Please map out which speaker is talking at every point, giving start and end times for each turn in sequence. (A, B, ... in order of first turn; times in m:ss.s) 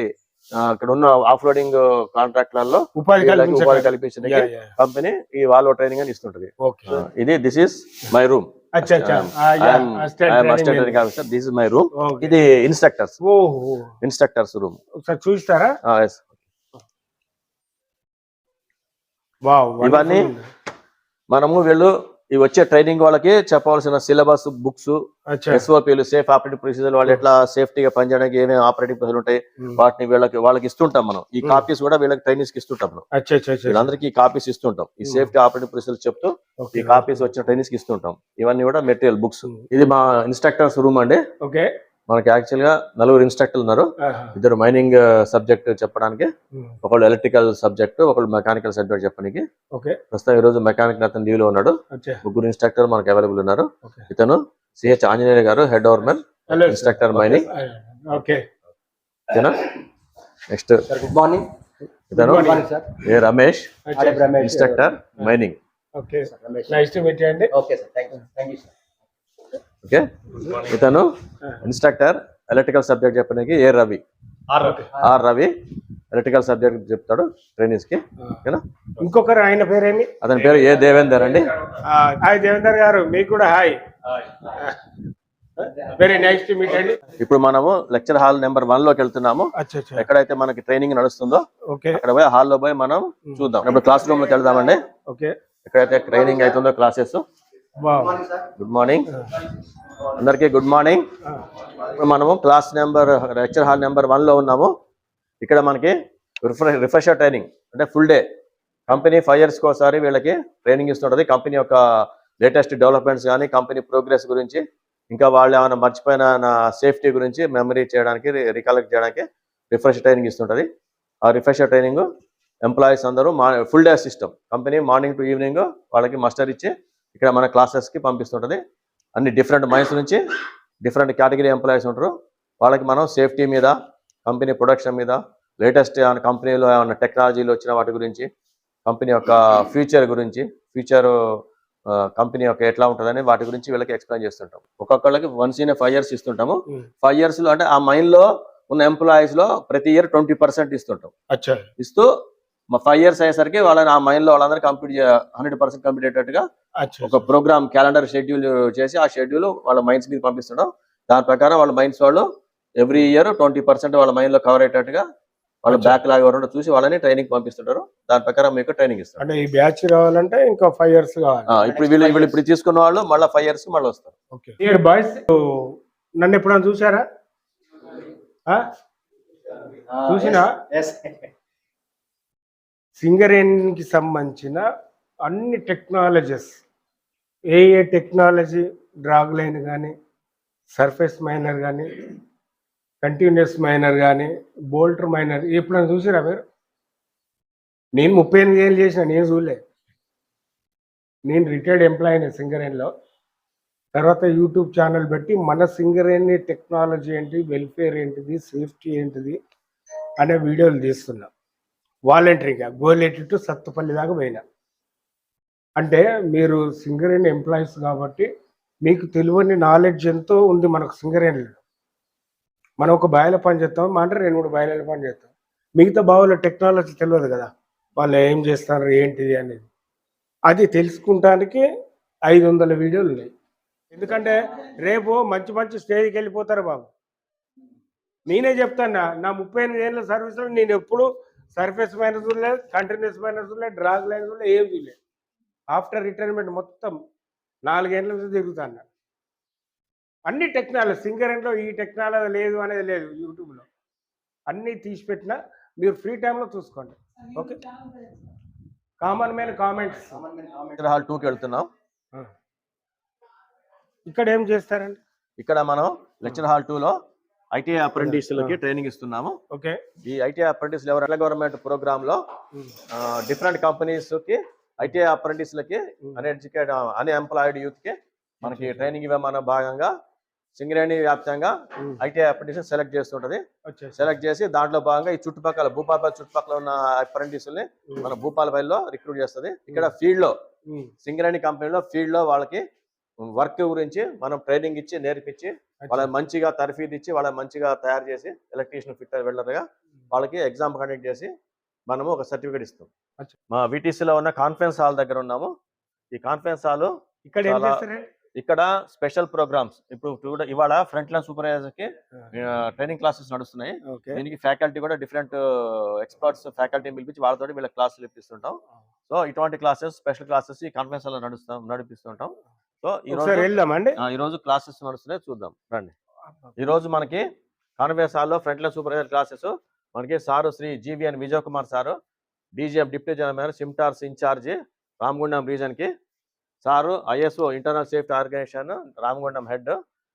0:00.6-0:13.2 A
0:03.0-0:04.7 B
0:06.6-0:07.0 B
0:08.8-0:11.0 B
0:12.0-0:12.4 B
0:13.2-0:13.9 B
0:14.0-0:14.8 A
0:15.0-0:15.8 B
0:15.9-0:16.3 A
0:19.4-0:20.5 B
0:19.8-0:20.3 A
0:21.3-0:25.0 A
0:25.3-0:25.6 B
0:25.5-0:33.0 A
0:33.1-0:33.9 B
0:33.7-0:41.2 A
0:35.0-0:35.3 B
0:36.6-0:37.1 B
0:41.4-0:41.7 B
0:42.1-0:46.3 A
0:44.0-0:44.4 B
0:46.8-0:49.4 A
0:49.7-0:50.0 B
0:50.1-0:57.5 A
0:51.9-0:52.2 B
0:56.5-0:58.4 B
0:59.3-0:59.7 A
1:00.5-1:00.9 A
1:00.9-1:01.5 C
1:02.1-1:03.8 A
1:02.2-1:02.7 B
1:02.3-1:02.9 C
1:03.9-1:04.4 B
1:04.0-1:04.8 C
1:04.4-1:05.6 A
1:06.0-1:07.5 B
1:06.3-1:06.8 C
1:07.5-1:08.7 C
1:09.8-1:11.1 A
1:10.4-1:10.6 B
1:11.6-1:15.5 A
1:14.6-1:14.9 B
1:16.1-1:18.6 A
1:19.0-1:20.1 B
1:20.2-1:21.5 A
1:21.8-1:23.8 B
1:24.4-1:24.8 B
1:25.6-1:27.1 B
1:27.2-1:34.8 A
1:29.6-1:30.1 B
1:31.7-1:32.0 B
1:35.1-1:35.3 B
1:35.7-1:37.2 A
1:37.8-1:38.2 B
1:38.6-1:39.1 A
1:40.1-1:41.0 A
1:41.8-1:44.7 A
1:45.4-1:48.2 A
1:48.9-1:51.8 A
1:52.4-2:00.7 A
2:01.2-2:02.0 A
2:02.6-2:08.6 A
2:09.2-2:10.2 A
2:10.8-2:13.7 A
2:14.3-2:18.3 A
2:18.9-2:21.1 A
2:21.9-2:31.1 A
2:31.3-2:31.7 B
2:31.8-2:32.1 A
2:32.7-2:36.4 A
2:36.8-2:37.2 B
2:37.0-2:42.3 A
2:42.8-2:45.0 A
2:45.6-2:49.2 A
2:45.7-2:46.0 B
2:49.2-2:51.6 B
2:51.5-2:54.1 A
2:51.7-2:52.4 C
2:54.3-2:57.0 B
2:59.9-3:01.3 C
3:00.1-3:00.5 B
3:03.0-3:04.6 B
3:05.2-3:06.6 B
3:07.5-3:09.9 B
3:10.7-3:12.1 B
3:13.0-3:16.4 B
3:18.0-3:19.6 B
3:21.3-3:22.9 B
3:24.0-3:29.4 B
3:30.2-3:31.3 B
3:32.1-3:34.4 B
3:35.8-3:38.3 B
3:38.8-3:41.6 B
3:42.8-3:49.7 B
3:50.5-3:51.6 B
3:52.3-3:53.3 B
3:53.9-3:56.9 B
3:58.3-4:05.0 B
4:05.7-4:07.0 B
4:07.6-4:08.8 B
4:10.3-4:13.7 B
4:14.5-4:17.7 B
4:19.0-4:20.3 B
4:20.6-4:21.7 A
4:24.1-4:25.0 B
4:25.4-4:27.0 A
4:27.5-4:29.4 A
4:28.0-4:28.6 B
4:29.5-4:29.8 B
4:30.0-4:32.2 A
4:32.9-4:39.9 A
4:38.4-4:38.9 B
4:40.6-4:43.4 A
4:43.7-4:44.0 B
4:44.0-4:50.4 A
4:51.0-4:52.6 A
4:53.3-5:01.3 A
4:55.8-4:56.1 B
5:01.9-5:02.9 A
5:03.5-5:05.5 A
5:06.1-5:06.9 A
5:07.2-5:08.1 B
5:07.4-5:07.8 A
5:08.4-5:25.9 A
5:13.9-5:14.2 B
5:23.1-5:24.0 B
5:26.6-5:27.2 A
5:27.8-5:32.0 A
5:32.6-5:35.9 A
5:36.6-5:39.8 A